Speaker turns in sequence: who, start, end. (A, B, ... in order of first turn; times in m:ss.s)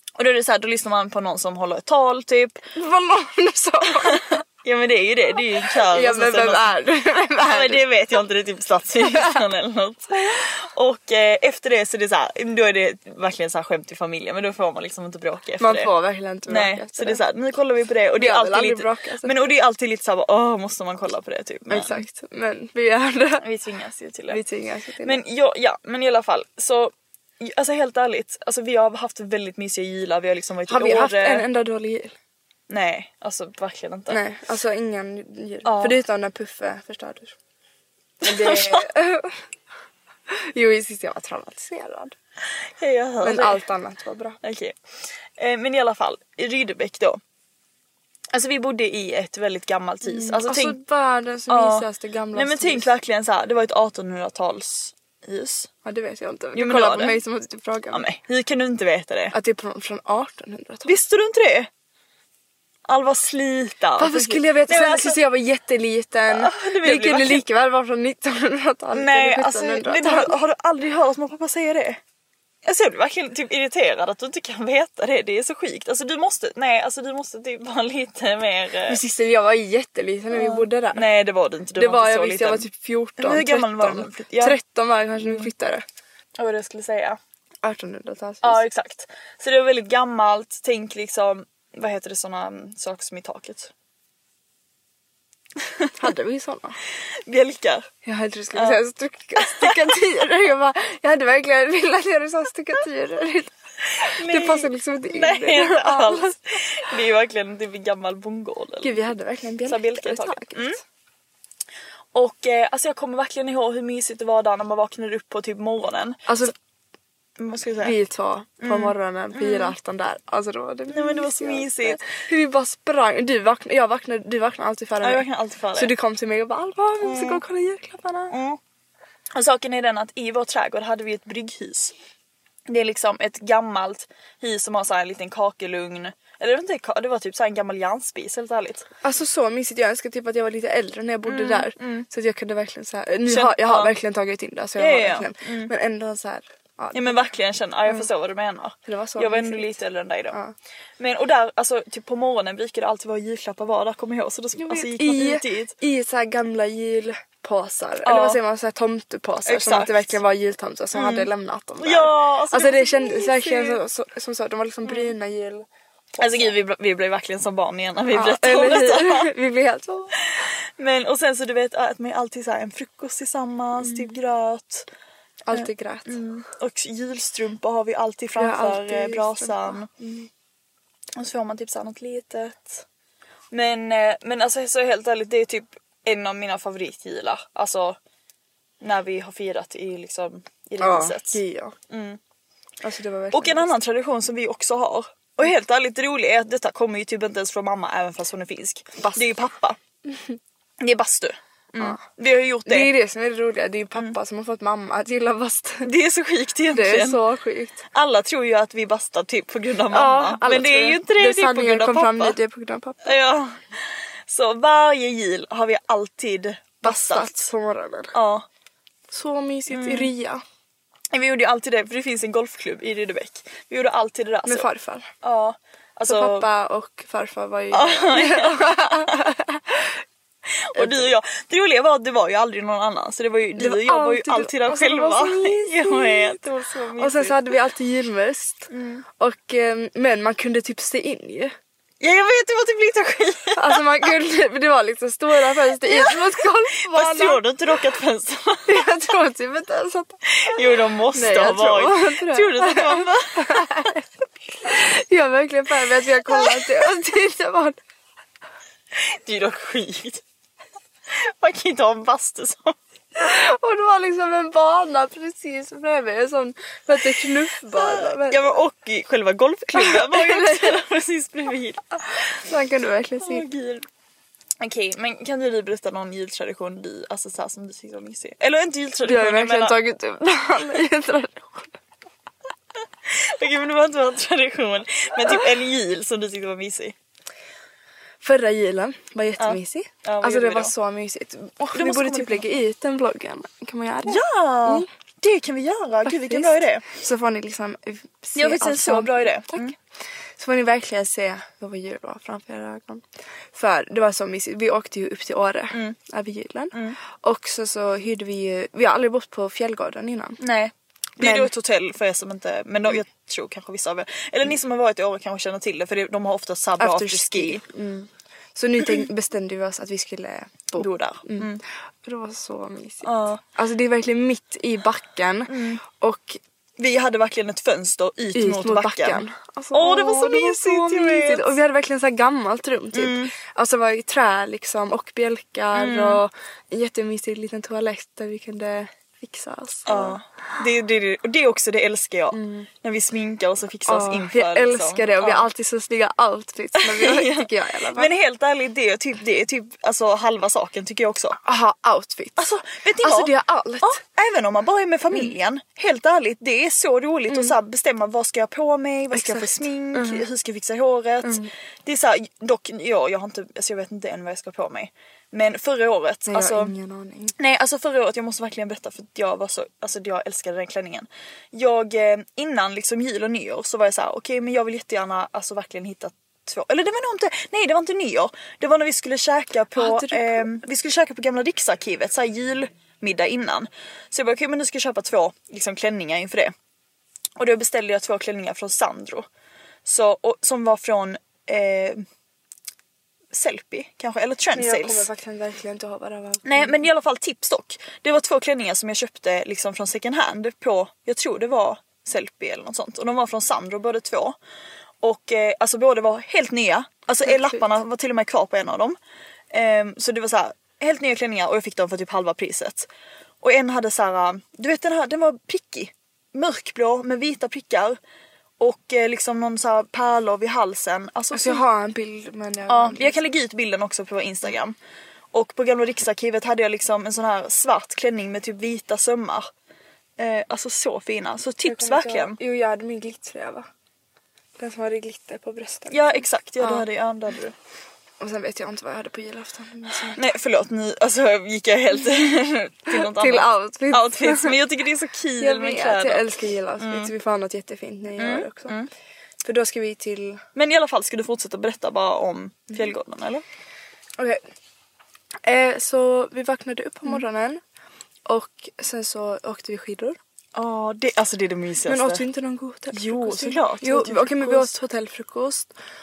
0:00.2-0:02.6 A
0:02.7-0:04.4 B
0:04.0-0:06.7 A
0:05.9-0:07.8 B
0:07.4-0:15.9 A
0:09.0-0:09.4 B
0:15.6-0:17.2 B
0:16.5-0:22.0 A
0:18.2-0:19.5 B
0:21.7-0:23.4 B
0:23.4-0:24.4 A
0:24.3-0:25.2 B
0:25.0-0:31.4 A
0:30.7-0:32.2 B
0:32.7-0:34.2 A
0:34.1-0:37.3 B
0:35.6-0:36.0 A
0:38.2-0:39.4 B
0:38.2-0:38.8 A
0:40.3-0:42.2 B
0:42.8-0:43.6 A
0:43.2-0:44.4 B
0:44.4-0:44.7 A
0:45.4-0:47.2 A
0:48.3-0:50.8 A
0:50.0-0:52.9 B
0:51.5-0:55.7 A
0:55.8-0:58.0 B
0:56.5-0:57.2 A
0:57.9-0:59.3 A
0:59.3-1:01.0 B
1:00.8-1:01.7 A
1:02.9-1:05.2 A
1:04.0-1:10.3 B
1:06.3-1:07.4 A
1:08.9-1:12.0 A
1:12.6-1:19.0 A
1:18.9-1:21.1 B
1:20.3-1:22.7 A
1:21.8-1:25.8 B
1:23.2-1:24.6 A
1:25.2-1:25.5 A
1:26.4-1:27.2 A
1:27.6-1:28.6 B
1:28.4-1:33.7 A
1:36.0-1:36.8 B
1:37.3-1:37.9 A
1:38.0-1:43.5 B
1:39.4-1:39.8 A
1:44.0-1:49.1 A
1:44.2-1:46.4 B
1:48.8-1:50.8 B
1:49.7-1:50.8 A
1:52.1-1:56.5 A
1:56.3-1:56.5 B
1:57.4-1:57.9 A
1:57.8-2:08.3 B
1:58.6-1:59.7 A
2:00.9-2:02.1 A
2:05.0-2:05.9 A
2:07.0-2:07.4 A
2:08.3-2:08.6 A
2:09.3-2:11.9 A
2:12.7-2:18.9 A
2:19.0-2:27.3 B
2:21.2-2:22.0 A
2:23.2-2:23.9 A
2:24.8-2:25.7 A
2:26.9-2:30.4 A
2:28.8-2:29.7 B
2:31.0-2:35.7 A
2:34.6-2:45.6 B
2:38.0-2:38.4 A
2:39.4-2:40.1 A
2:40.9-2:41.3 A
2:41.8-2:43.8 A
2:44.8-2:45.1 A
2:46.2-2:46.5 B
2:46.2-2:49.3 A
2:48.1-2:50.2 B
2:50.8-2:54.9 A
2:53.8-2:54.1 B
2:55.5-2:56.2 B
2:55.5-2:59.9 A
2:58.4-3:00.3 B
3:01.1-3:02.8 A
3:03.5-3:08.0 A
3:08.8-3:12.2 A
3:10.8-3:11.7 B
3:12.8-3:13.7 B
3:13.3-3:19.8 A
3:20.1-3:20.4 B
3:20.8-3:22.9 A
3:22.6-3:25.9 B
3:25.8-3:27.2 A
3:26.7-3:27.8 B
3:27.9-3:32.4 A
3:29.9-3:33.2 B
3:33.0-3:37.5 A
3:36.8-3:38.1 B
3:38.1-3:38.4 A
3:39.1-3:40.4 B
3:39.7-3:40.1 A
3:41.1-3:44.7 A
3:44.4-3:45.1 B
3:45.2-3:46.5 A
3:46.0-3:49.8 B
3:47.7-3:49.3 A
3:50.6-3:57.5 A
3:50.8-3:51.1 B
3:53.6-3:56.4 B
3:57.0-4:01.5 B
3:58.7-3:59.0 A
4:02.0-4:04.0 A
4:03.5-4:07.4 B
4:05.8-4:06.2 A
4:06.8-4:08.9 A
4:08.7-4:10.2 B
4:10.3-4:13.8 A
4:11.1-4:14.1 B
4:14.6-4:17.8 B
4:19.0-4:20.2 A
4:21.1-4:22.8 A
4:23.2-4:28.6 B
4:27.7-4:32.4 A
4:29.7-4:30.8 B
4:32.4-4:33.4 B
4:33.2-4:33.8 A
4:34.6-4:39.8 A
4:39.0-4:41.8 B
4:43.1-4:46.9 A
4:48.2-4:54.9 B
4:49.4-4:50.7 A
4:51.7-4:52.4 A
4:54.0-4:56.9 A
4:56.0-4:59.7 B
4:58.3-4:59.7 A
5:00.4-5:10.4 B
5:06.7-5:07.0 A
5:10.4-5:17.6 A
5:11.2-5:11.5 B
5:16.8-5:26.4 B
5:20.8-5:21.6 A
5:23.0-5:23.4 A
5:25.5-5:25.8 A
5:26.8-5:31.5 A
5:28.3-5:40.2 B
5:32.9-5:33.3 A
5:35.7-5:36.2 A
5:39.8-5:45.5 A
5:42.3-5:42.7 B
5:43.9-5:48.1 B
5:46.8-5:51.4 A
5:51.4-5:52.4 B
5:52.4-6:06.7 A
5:53.0-5:54.0 B
5:57.3-5:57.6 B
5:59.1-6:00.3 B
6:01.2-6:01.5 B
6:06.3-6:07.3 B
6:07.4-6:26.5 A
6:19.7-6:20.5 B
6:27.4-6:29.2 A
6:29.8-6:32.0 A
6:33.3-6:35.1 A
6:34.5-6:36.8 B
6:36.4-6:44.4 A
6:45.0-6:49.0 A
6:47.2-6:47.6 B
6:49.5-6:52.9 A
6:53.4-6:58.0 A
6:58.6-7:01.6 A
7:01.3-7:03.2 B
7:02.7-7:04.8 A
7:05.3-7:09.5 A
7:10.2-7:12.4 A
7:11.6-7:13.7 B
7:14.6-7:16.8 B
7:15.9-7:17.5 A
7:18.2-7:20.2 B
7:20.1-7:26.3 A
7:22.9-7:24.6 B
7:25.4-7:28.8 B
7:26.8-7:27.1 A
7:28.2-7:28.9 A
7:29.4-7:30.4 B
7:30.5-7:33.4 A
7:35.4-7:37.6 B
7:38.3-7:40.2 B
7:40.5-7:42.2 A
7:41.9-7:45.7 B
7:42.9-7:44.7 A